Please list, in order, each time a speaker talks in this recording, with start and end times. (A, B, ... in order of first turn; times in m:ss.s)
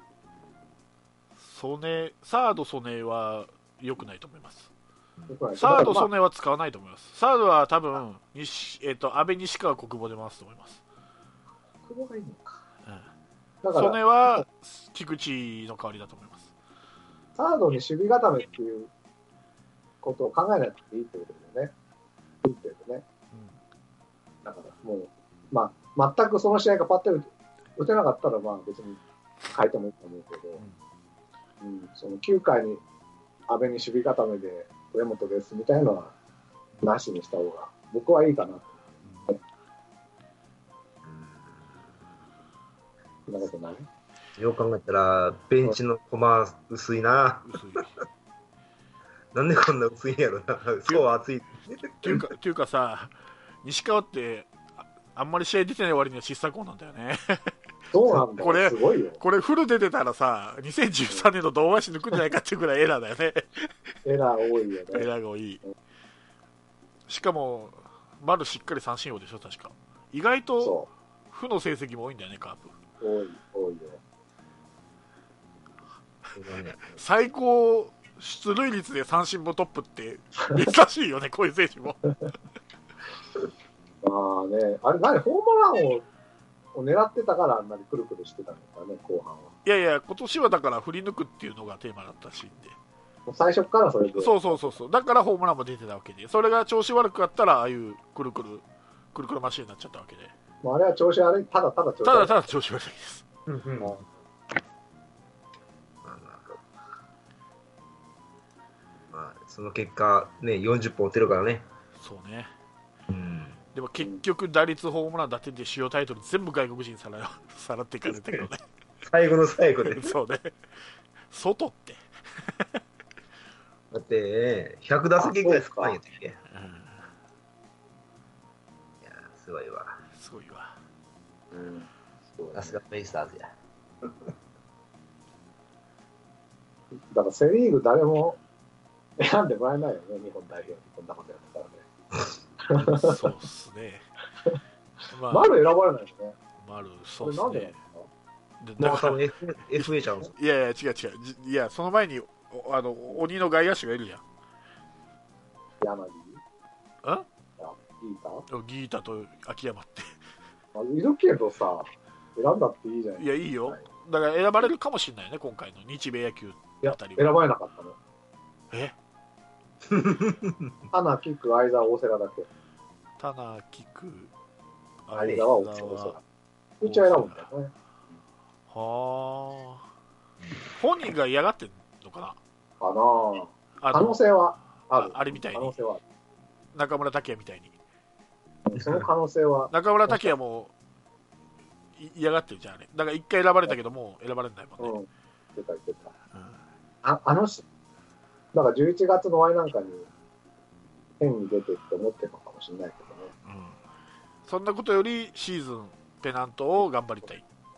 0:01.4-0:04.7 A
0:05.3-0:06.1 B
0:05.6-0:10.8 A
0:11.8-0:12.6 B
0:13.6-0:14.0 B
0:13.7-0:16.5 A
0:17.4-0:18.9 B
0:20.0-0:21.7 B
0:22.4-0:23.0 B
0:23.3-0:23.6 A
0:24.4-0:29.0 B
0:29.5-0:30.6 B
0:31.6-0:32.8 B
0:33.5-0:36.1 B
0:36.8-0:39.4 B
0:41.0-0:41.5 C
0:43.3-0:43.9 B
0:44.4-0:47.8 C
0:47.5-0:47.9 A
0:49.3-0:52.2 C
0:52.0-0:53.1 A
0:53.6-0:54.5 A
0:55.1-0:57.5 A
0:57.9-0:59.2 B
0:58.1-1:03.7 A
1:04.0-1:05.1 B
1:04.9-1:05.6 A
1:07.1-1:10.8 A
1:10.6-1:10.9 B
1:11.3-1:12.7 A
1:13.0-1:14.0 B
1:16.3-1:17.0 C
1:16.9-1:22.2 A
1:24.0-1:26.1 B
1:26.7-1:29.5 B
1:29.6-1:32.8 A
1:33.3-1:34.8 B
1:34.2-1:40.3 A
1:40.6-1:42.3 B
1:42.0-1:43.2 A
1:43.5-1:44.0 C
1:46.0-1:46.5 C
1:49.1-1:51.6 C
1:52.0-1:52.5 A
1:53.1-1:53.6 C
1:53.7-1:58.6 A
1:59.0-2:00.1 C
1:59.8-2:00.5 A
2:01.3-2:02.8 A
2:03.9-2:06.4 C
2:05.2-2:06.0 B
2:06.5-2:07.1 A
2:09.0-2:10.0 C
2:10.2-2:10.7 A
2:11.5-2:12.8 B
2:12.5-2:13.5 C
2:17.1-2:18.4 B
2:19.2-2:21.8 B
2:22.6-2:23.2 B
2:22.8-2:24.0 A
2:25.1-2:25.6 A
2:25.3-2:26.4 B
2:26.6-2:27.7 A
2:27.2-2:28.1 B
2:28.6-2:29.2 A
2:28.8-2:30.3 C
2:29.8-2:34.2 A
2:35.8-2:36.4 B
2:37.6-2:38.4 B
2:38.5-2:40.1 A
2:40.7-2:43.8 B
2:43.2-2:47.3 A
2:46.8-2:48.0 B
2:49.9-2:50.7 C
2:50.9-2:52.5 B
2:53.2-2:54.3 A
2:55.0-2:56.2 A
2:55.1-2:56.2 B
2:56.8-2:57.7 B
2:56.8-2:57.4 A
2:58.7-2:59.8 A
3:00.8-3:02.4 A
3:02.8-3:06.0 B
3:03.8-3:04.2 A
3:05.0-3:05.7 A
3:06.7-3:07.7 A
3:08.7-3:10.3 B
3:09.7-3:10.7 A
3:12.0-3:14.9 A
3:14.8-3:16.1 B
3:16.3-3:16.6 A
3:17.0-3:17.6 B
3:18.5-3:20.1 B
3:21.2-3:23.3 B
3:23.4-3:23.8 A
3:24.4-3:27.4 A